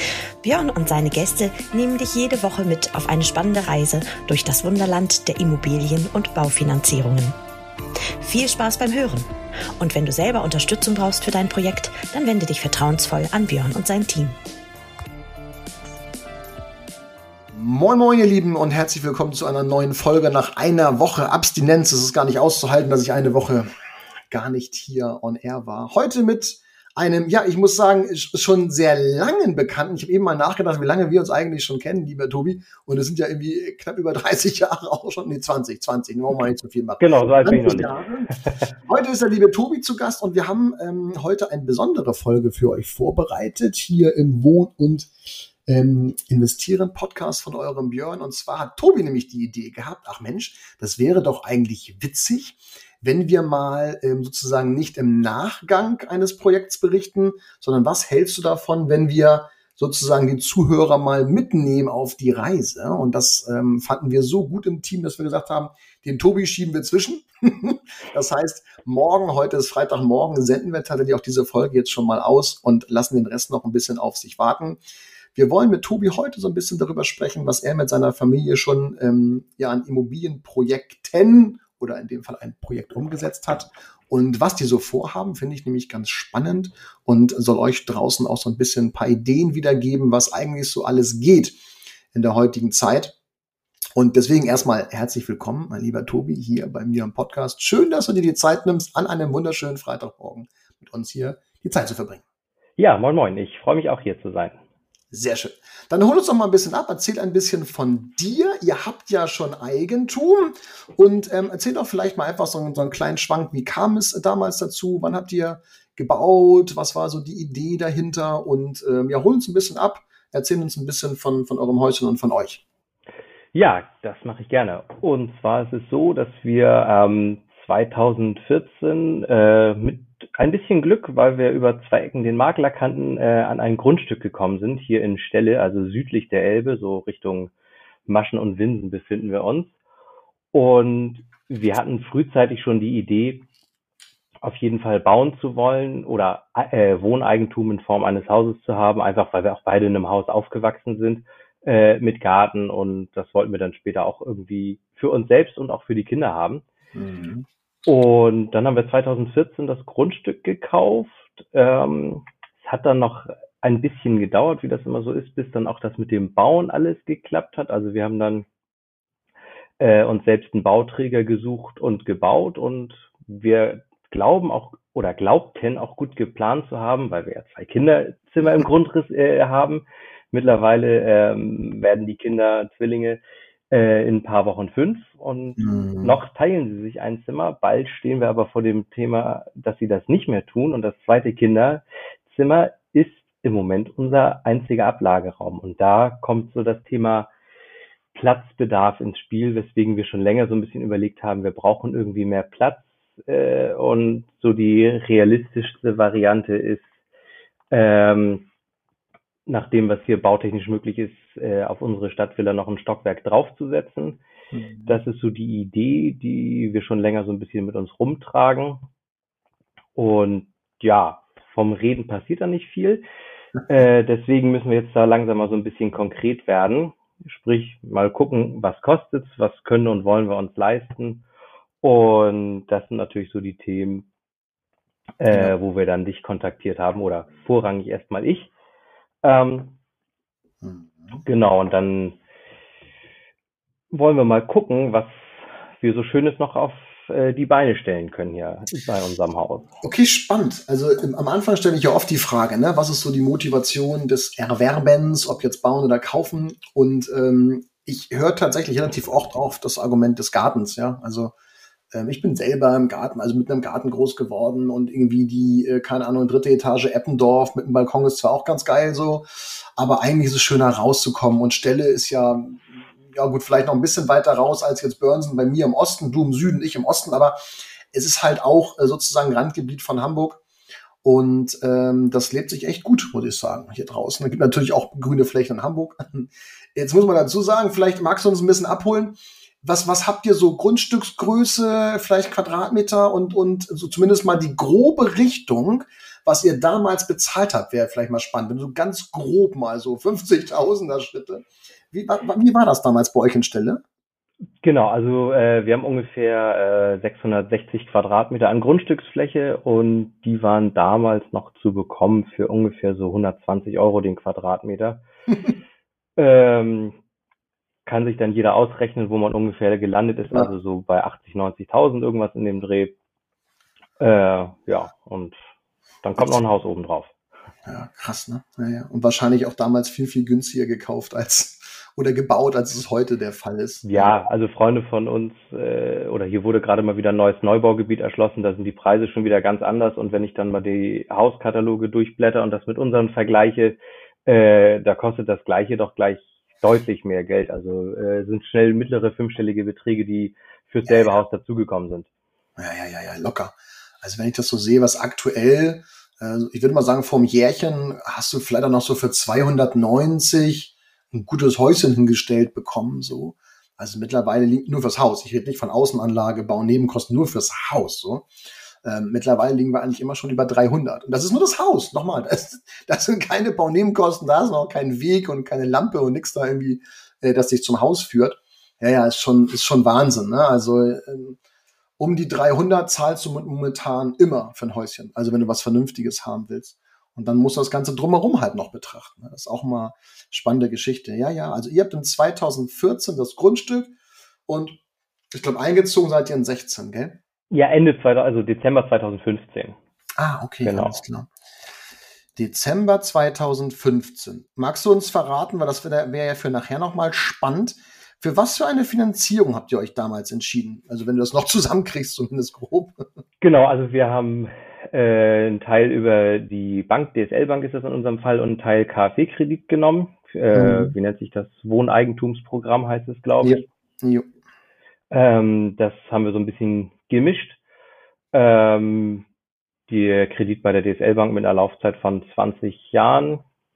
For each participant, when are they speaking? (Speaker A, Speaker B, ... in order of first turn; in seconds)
Speaker A: 0.4-7.3, 8.2-14.3
Speaker B: 17.5-23.7, 24.3-38.3, 38.8-45.1, 45.6-74.8, 75.3-91.6, 92.1-93.1, 94.0-102.2, 105.1-122.6, 156.9-157.5, 185.6-186.2, 214.5-215.0, 240.6-241.2, 249.8-261.3, 261.9-280.4, 281.0-303.8, 327.6-334.2, 350.9-351.2, 352.6-368.3, 368.8-381.4, 382.0-393.9, 394.5-394.8, 395.3-397.2, 400.2-401.3, 402.4-413.0, 420.5-420.9, 423.4-424.3
Speaker C: 37.0-38.7, 102.8-104.6, 123.5-137.5, 138.1-139.7, 140.5-143.4, 144.4-156.6, 157.8-168.4, 169.8-183.2, 183.7-197.3, 198.1-206.9, 207.7-208.4, 209.5-214.2, 214.9-218.8, 219.9-223.0, 223.7-231.2, 231.8-234.1, 235.2-238.5, 239.2-239.8, 241.2-242.2, 243.9-249.7, 304.6-315.0, 316.2-316.9, 317.9-322.9, 324.0-325.4, 326.0-327.1, 333.8-352.1, 397.5-399.8, 400.6-401.0, 413.4-423.6, 425.1-427.6, 428.3-429.2, 429.9-433.4